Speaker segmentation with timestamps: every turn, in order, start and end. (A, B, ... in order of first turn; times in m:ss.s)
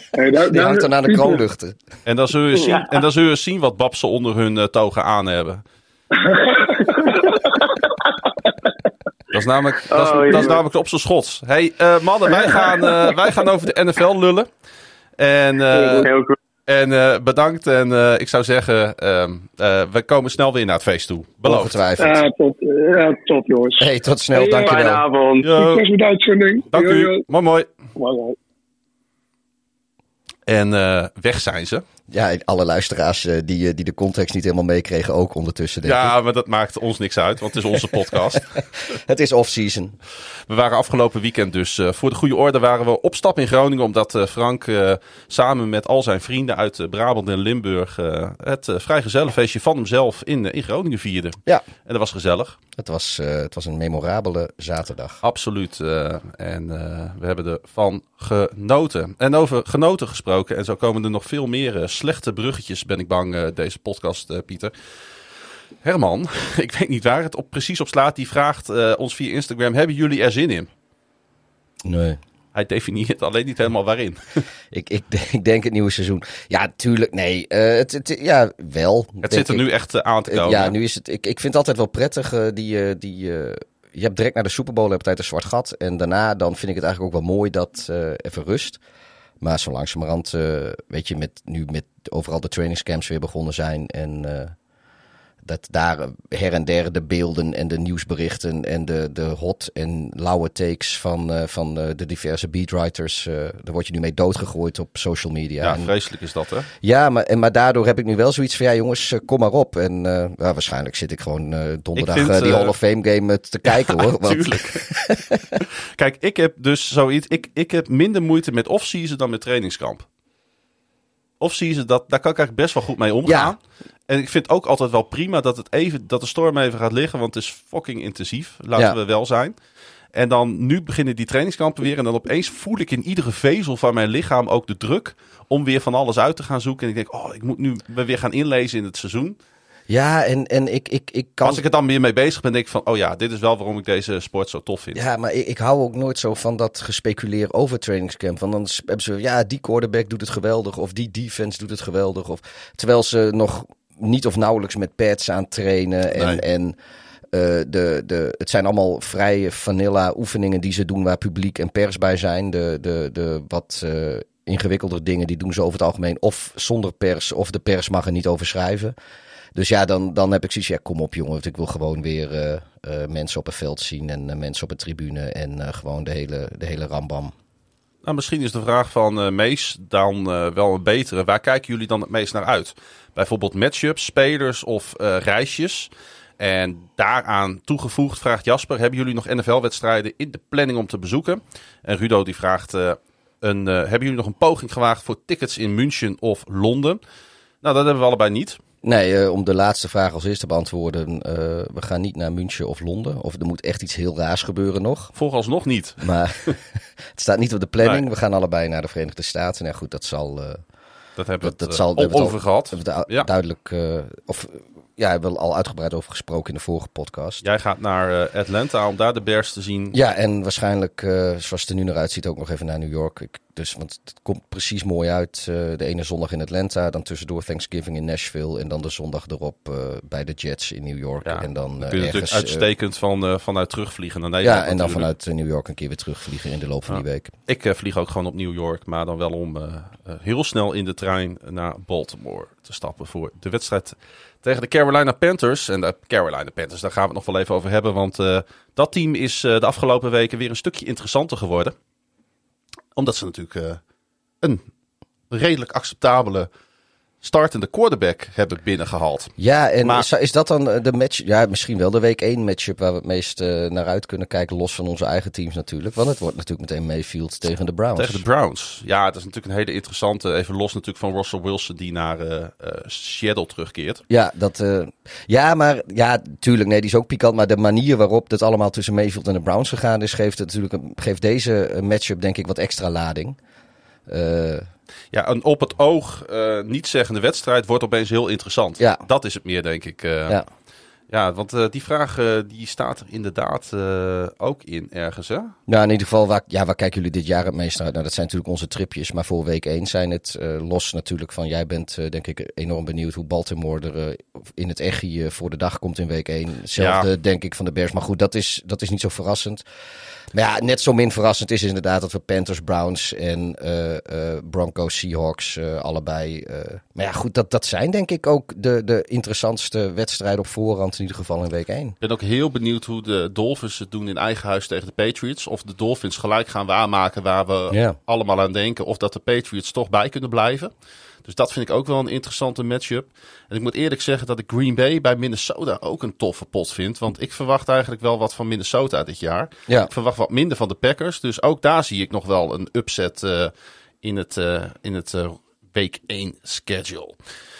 0:00.2-0:01.4 A
0:00.5-0:01.8 B
0:02.1-0:05.6 C
0:02.6-0:02.9 D
0:06.2-0:07.5 A
0:09.3-0:14.5 C
0:09.9-0:10.6 D
0:12.4-0:12.9 A
0:15.2-0:16.1 C
0:15.8-0:16.1 A
0:15.9-0:16.4 D
0:16.7-0:21.8 C
0:21.4-0:22.2 B
0:22.0-0:23.9 A
0:23.8-0:25.0 B
0:24.3-0:25.5 D
0:25.4-0:25.8 C
0:25.5-0:27.2 A
0:26.7-0:27.7 C
0:28.0-0:28.4 A
0:30.5-0:31.8 C
0:32.1-0:36.1 B
0:35.8-0:38.5 C
0:37.7-0:40.0 B
0:40.5-0:52.6 C
0:52.8-0:55.2 B
0:55.2-1:04.7 C
1:05.8-1:10.7 C
1:11.8-1:12.2 B
1:12.6-1:14.4 C
1:14.7-1:19.6 B
1:19.2-1:20.8 C
1:20.3-1:28.8 B
1:29.4-1:34.6 B
1:35.4-1:45.9 B
1:45.6-1:46.7 C
1:46.8-1:55.6 B
1:52.0-1:52.7 C
1:53.6-1:54.8 C
1:55.6-2:00.1 C
2:01.4-2:09.5 C
2:03.2-2:03.6 B
2:10.1-2:19.4 C
2:19.9-2:21.6 B
2:21.4-2:25.0 C
2:25.0-2:36.8 B
2:36.1-2:36.4 C
2:37.3-2:48.9 B
2:49.6-2:57.3 B
2:58.0-3:17.0 C
3:17.6-3:18.6 C
3:18.8-3:25.1 B
3:25.2-3:26.6 C
3:26.0-3:26.6 B
3:27.2-3:30.6 B
3:31.2-3:33.3 C
3:31.4-3:37.4 B
3:37.4-3:40.0 C
3:39.9-3:52.6 B
3:51.2-3:55.1 C
3:54.4-3:57.3 B
3:56.9-4:11.8 C
4:13.0-4:13.8 C
4:15.3-4:16.5 C
4:17.2-4:20.1 C
4:19.4-4:28.2 B
4:28.0-4:34.0 C
4:34.1-4:43.4 B
4:44.1-4:44.7 B
4:45.1-4:50.4 C
4:51.1-4:55.6 C
4:55.7-5:09.6 B
5:06.8-5:07.1 C
5:10.3-5:22.0 B
5:22.0-5:30.7 C
5:27.7-5:28.0 B
5:31.2-5:43.5 C
5:44.0-5:47.2 C